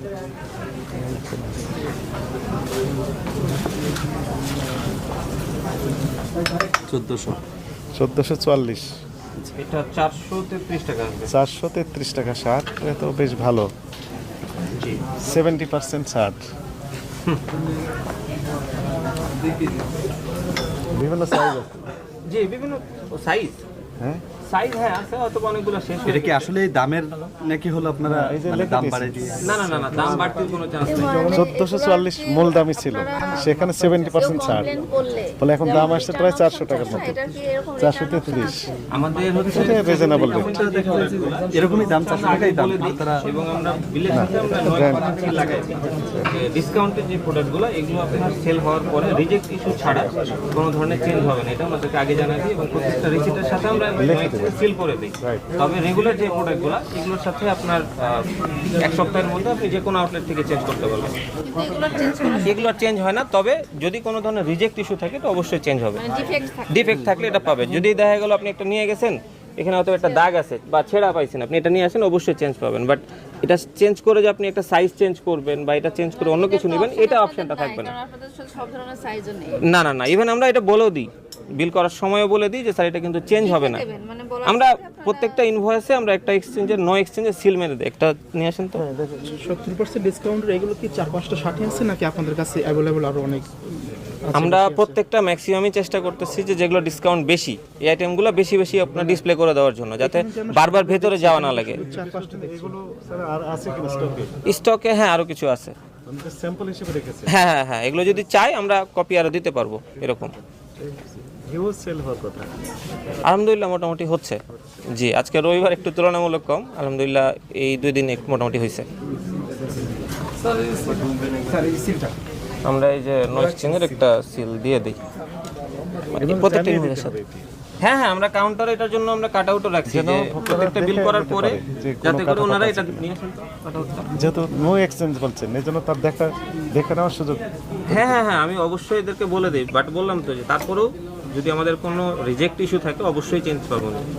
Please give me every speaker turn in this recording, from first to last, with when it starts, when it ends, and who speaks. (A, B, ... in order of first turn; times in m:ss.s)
0:01.0-0:01.5 A
0:06.9-0:07.4 B
0:07.9-0:08.8 A
0:09.6-0:11.3 C
0:11.3-0:13.7 A
0:15.2-0:16.4 A
0:20.9-0:21.9 A
0:22.3-0:23.6 C
0:24.4-0:26.4 C
0:26.0-0:29.6 B
0:28.1-0:30.4 A
0:29.4-0:31.3 C
0:30.8-0:33.5 D
0:31.3-0:34.8 A
0:34.0-0:38.8 D
0:35.4-0:37.2 A
0:37.8-0:38.7 A
0:38.9-1:01.2 C
0:39.5-0:40.5 A
0:40.2-0:43.2 B
0:44.1-0:45.1 A
0:45.2-0:45.8 E
0:46.0-0:46.3 A
0:54.0-0:54.6 A
0:55.2-0:55.5 A
1:01.4-1:02.7 D
1:02.4-1:06.1 C
1:06.0-1:06.9 D
1:06.7-1:17.9 C
1:10.0-1:10.4 D
1:16.1-1:19.7 D
1:19.6-1:23.9 C
1:23.4-1:25.5 D
1:24.4-1:28.8 C
1:28.9-1:29.3 A
1:29.2-1:35.0 E
1:34.3-1:41.8 C
1:40.0-1:42.7 E
1:41.7-1:44.3 A
1:44.4-1:45.8 C
1:46.0-1:47.4 A
1:47.3-1:50.3 C
1:50.8-1:52.5 A
1:53.2-1:54.4 C
1:54.9-1:58.9 C
2:00.6-2:02.1 B
2:02.6-2:05.0 C
2:06.1-2:07.1 C
2:06.2-2:07.4 A
2:07.8-2:14.1 C
2:09.8-2:13.1 A
2:14.1-2:18.2 A
2:17.9-2:24.0 C